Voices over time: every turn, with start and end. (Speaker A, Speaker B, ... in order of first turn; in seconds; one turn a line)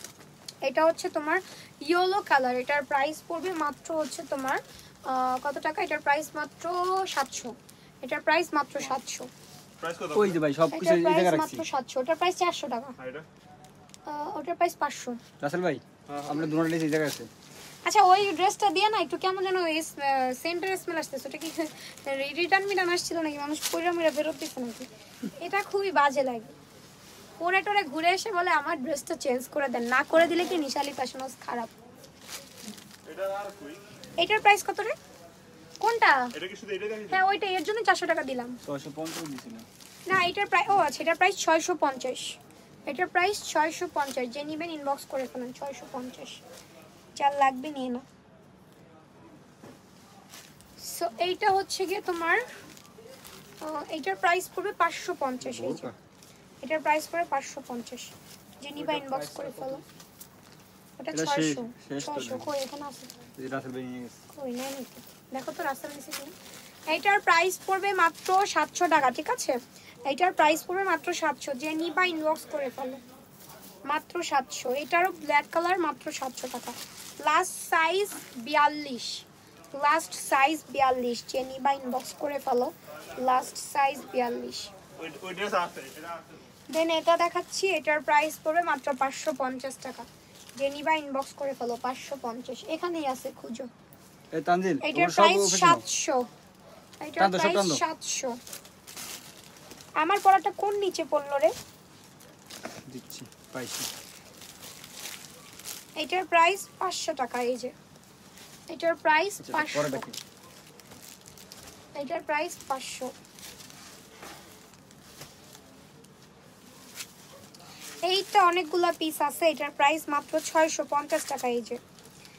Speaker A: 0.6-9.3
Speaker B: 9.8-10.4
Speaker C: 10.1-11.7
Speaker A: 10.7-13.0
Speaker B: 13.0-13.3
Speaker A: 14.1-15.2
Speaker C: 15.4-17.3
Speaker B: 16.1-16.5
Speaker A: 17.9-26.5
Speaker A: 27.4-31.7
Speaker B: 33.0-33.8
Speaker A: 34.2-35.0
Speaker A: 35.8-36.3
Speaker B: 36.3-37.3
Speaker A: 37.1-38.6
Speaker C: 38.6-39.7
Speaker A: 40.1-46.4
Speaker A: 47.2-48.0
Speaker A: 50.8-52.4
Speaker A: 53.6-55.9
Speaker C: 55.4-56.0
Speaker A: 56.6-59.8
Speaker C: 58.8-59.8
Speaker A: 61.0-63.1
Speaker C: 61.1-62.5
Speaker C: 63.4-64.2
Speaker A: 64.3-66.3
Speaker A: 66.9-73.0
Speaker A: 73.9-84.7
Speaker B: 85.0-86.5
Speaker A: 86.7-93.7
Speaker C: 94.3-95.8
Speaker A: 94.8-96.3
Speaker A: 97.0-98.4
Speaker C: 97.2-97.8
Speaker A: 100.0-101.5
Speaker C: 102.9-103.9
Speaker A: 106.0-107.7
Speaker A: 108.7-110.1
Speaker C: 109.4-110.2
Speaker A: 112.0-113.1
Speaker A: 118.0-121.8